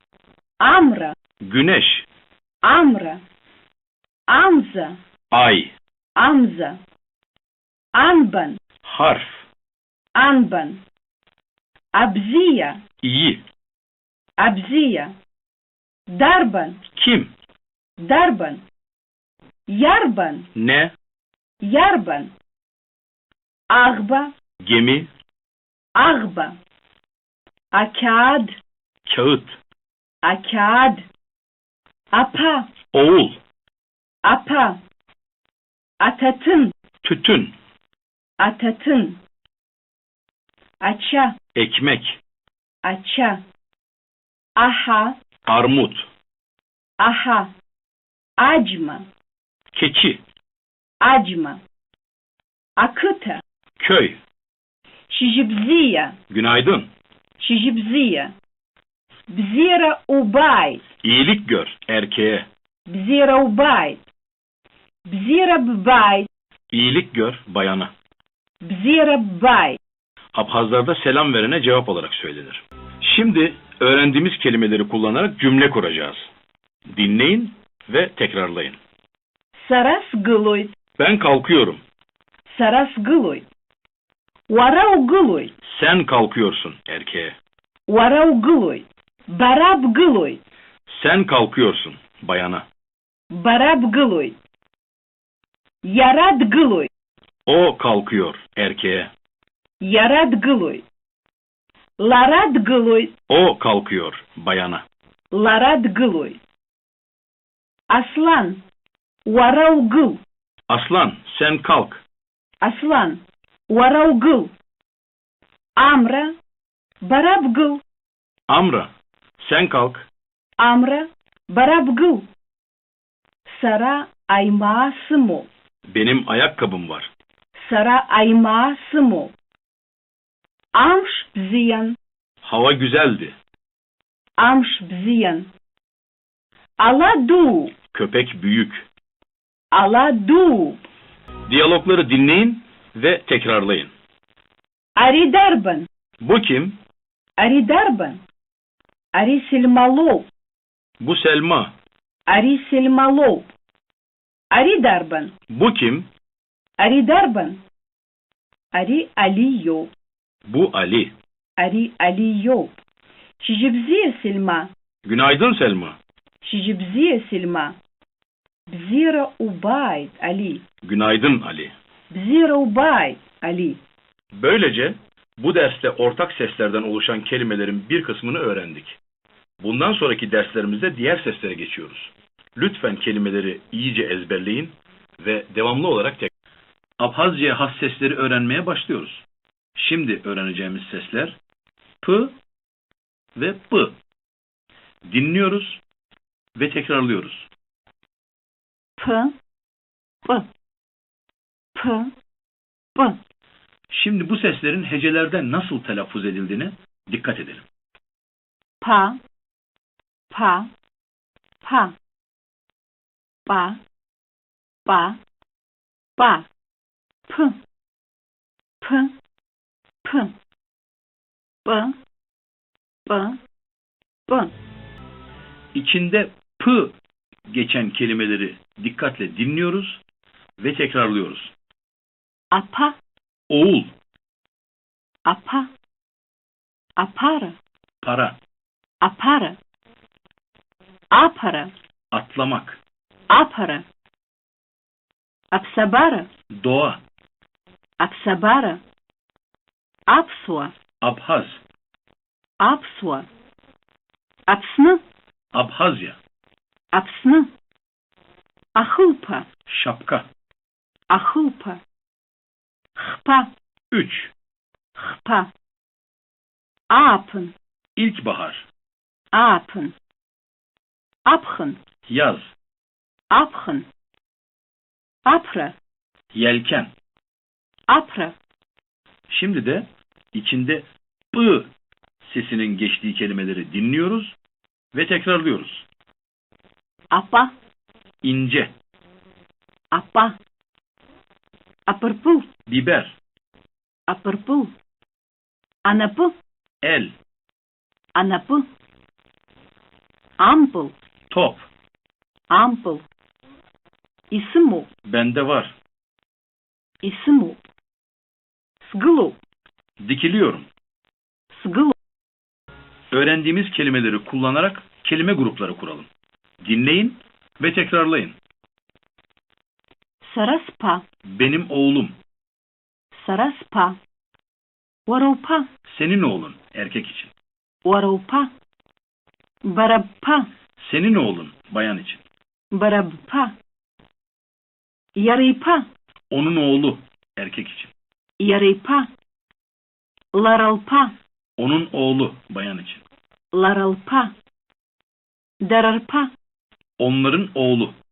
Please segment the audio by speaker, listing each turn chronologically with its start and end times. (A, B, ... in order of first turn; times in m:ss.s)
0:00.6-0:01.1 A
0:01.4-0:02.1 B
0:02.6-0:03.2 A
0:04.3-0:05.0 A
0:05.3-0:05.7 B
0:06.2-0:06.8 A
0:07.9-0:08.6 A
0:08.8-0:09.4 B
0:10.1-0:10.8 A
0:11.9-0:12.8 A
0:13.0-0:13.4 B
0:14.4-0:15.1 A
0:16.1-0:16.8 A
0:17.0-0:17.3 B
0:18.0-0:18.6 A
0:19.7-0:20.5 A
0:20.5-0:20.9 B
0:21.6-0:22.3 A
0:23.7-0:24.3 A
0:24.6-0:25.1 B
0:25.9-0:26.5 A
0:27.7-0:28.6 A
0:29.0-0:29.6 B
0:30.2-0:31.0 A
0:32.1-0:32.7 A
0:32.9-0:33.4 B
0:34.2-0:34.8 A
0:36.0-0:36.7 A
0:37.0-0:37.5 B
0:38.4-0:39.2 A
0:40.8-0:41.4 A
0:41.5-0:42.2 B
0:42.8-0:43.4 A
0:44.6-0:45.2 A
0:45.4-0:46.1 B
0:47.0-0:47.5 A
0:48.4-0:49.0 A
0:49.7-0:50.2 B
0:51.0-0:51.6 A
0:52.8-0:53.4 A
0:53.8-0:54.2 B
0:55.1-0:56.2 A
0:56.3-0:56.9 B
0:57.4-0:58.3 A
0:59.3-1:00.8 A
1:01.0-1:02.4 B
1:02.9-1:04.0 A
1:05.1-1:06.3 A
1:06.7-1:07.9 B
1:08.6-1:09.8 A
1:10.3-1:16.3 B
1:16.9-1:18.8 B
1:19.6-1:20.7 A
1:21.0-1:21.8 B
1:22.5-1:23.4 A
1:24.5-1:25.5 A
1:25.6-1:27.4 B
1:27.9-1:30.4 A
1:30.9-1:32.6 B
1:33.3-1:34.4 A
1:35.8-1:36.9 A
1:37.5-1:39.1 B
1:39.8-1:40.8 A
1:42.0-1:43.1 A
1:43.3-1:44.8 B
1:45.3-1:46.4 A
1:47.9-1:48.6 A
1:49.2-1:50.2 A
1:50.7-1:52.0 B
1:52.6-1:54.5 A
1:55.8-1:56.3 A
1:57.0-1:57.8 A
1:58.5-2:00.1 B
2:00.6-2:02.3 A
2:03.5-2:05.5 A
2:05.9-2:07.1 B
2:07.6-2:09.3 A
2:10.7-2:12.0 A
2:12.4-2:13.4 B
2:14.4-2:15.5 A
2:16.8-2:17.7 A
2:17.9-2:18.8 B
2:19.7-2:20.8 A
2:21.5-2:23.9 B
2:25.0-2:25.9 A
2:26.2-2:26.8 B
2:27.4-2:28.2 A
2:29.1-2:30.3 A
2:31.0-2:31.7 B
2:32.3-2:33.5 A
2:34.5-2:35.3 A
2:35.5-2:36.1 B
2:36.8-2:37.6 A
2:38.7-2:39.9 A
2:40.4-2:41.1 B
2:41.6-2:42.7 A
2:43.4-2:44.7 A
2:45.0-2:46.0 B
2:46.4-2:47.8 A
2:48.7-2:50.6 A
2:50.8-2:51.7 B
2:52.1-2:53.8 A
2:54.3-2:59.0 B
2:59.6-3:06.3 B
3:07.0-3:09.2 B
3:09.8-3:11.4 B
3:12.0-3:12.3 B
3:13.3-3:14.0 B
3:15.1-3:15.8 B
3:16.6-3:17.5 B
3:19.0-3:19.4 A
3:21.7-3:22.1 A
3:23.9-3:27.6 B
3:28.8-3:29.2 A
3:30.3-3:30.7 A
3:31.6-3:31.9 A
3:33.4-3:33.8 A
3:34.8-3:35.2 A
3:36.2-3:36.4 A
3:37.3-3:37.6 A
3:38.8-3:39.1 A
3:40.0-3:40.3 A
3:41.6-3:41.9 A
3:43.0-3:43.4 A
3:44.3-3:44.5 A
3:45.7-3:47.0 B
3:47.5-3:50.0 B
3:50.6-3:51.5 B
3:52.5-3:53.0 A
3:53.5-3:53.9 B
3:55.2-3:55.7 A
3:57.0-3:57.6 A
3:58.0-3:58.4 B
3:59.0-3:59.6 A
4:01.1-4:01.7 A
4:02.1-4:02.8 B
4:03.3-4:03.8 A
4:05.5-4:06.3 A
4:06.5-4:07.0 B
4:08.0-4:08.8 A
4:10.1-4:10.7 A
4:11.0-4:11.6 B
4:12.6-4:13.3 A
4:14.5-4:15.0 A
4:15.5-4:16.2 B
4:16.9-4:17.5 A
4:18.7-4:19.5 A
4:19.7-4:20.3 B
4:21.1-4:21.8 A
4:23.0-4:23.5 A
4:23.9-4:24.3 B
4:25.0-4:25.5 A
4:26.9-4:27.5 A
4:28.0-4:28.7 B
4:29.3-4:29.9 A
4:31.2-4:31.8 A
4:32.1-4:32.5 B
4:33.3-4:33.9 A
4:35.2-4:35.8 A
4:36.3-4:36.9 B
4:37.9-4:38.3 A
4:39.3-4:41.7 B
4:42.2-4:44.4 B
4:44.9-4:45.8 B
4:47.1-4:47.5 A
4:48.2-4:48.7 B
4:49.9-4:50.4 A
4:51.9-4:52.5 A
4:52.7-4:53.2 B
4:54.1-4:54.7 A
4:55.8-4:56.3 A
4:56.8-4:57.1 B
4:58.1-4:58.7 A
5:00.4-5:00.9 A
5:01.3-5:01.7 B
5:02.5-5:03.0 A
5:04.3-5:04.9 A
5:05.0-5:05.8 B
5:07.0-5:07.6 A
5:08.8-5:09.4 A
5:10.0-5:10.7 B
5:11.5-5:11.9 A
5:13.1-5:16.1 B
5:16.6-5:18.4 B
5:20.2-5:21.0 A
5:21.3-5:22.1 B
5:23.1-5:24.0 A
5:25.1-5:25.7 A
5:25.9-5:27.3 B
5:27.8-5:28.5 A
5:29.6-5:30.5 A
5:30.8-5:32.2 B
5:32.7-5:33.5 A
5:35.1-5:35.8 A
5:36.3-5:37.9 B
5:38.4-5:39.1 A
5:40.3-5:41.1 A
5:41.6-5:43.0 B
5:43.5-5:44.3 A
5:45.6-5:46.3 A
5:47.0-5:47.9 B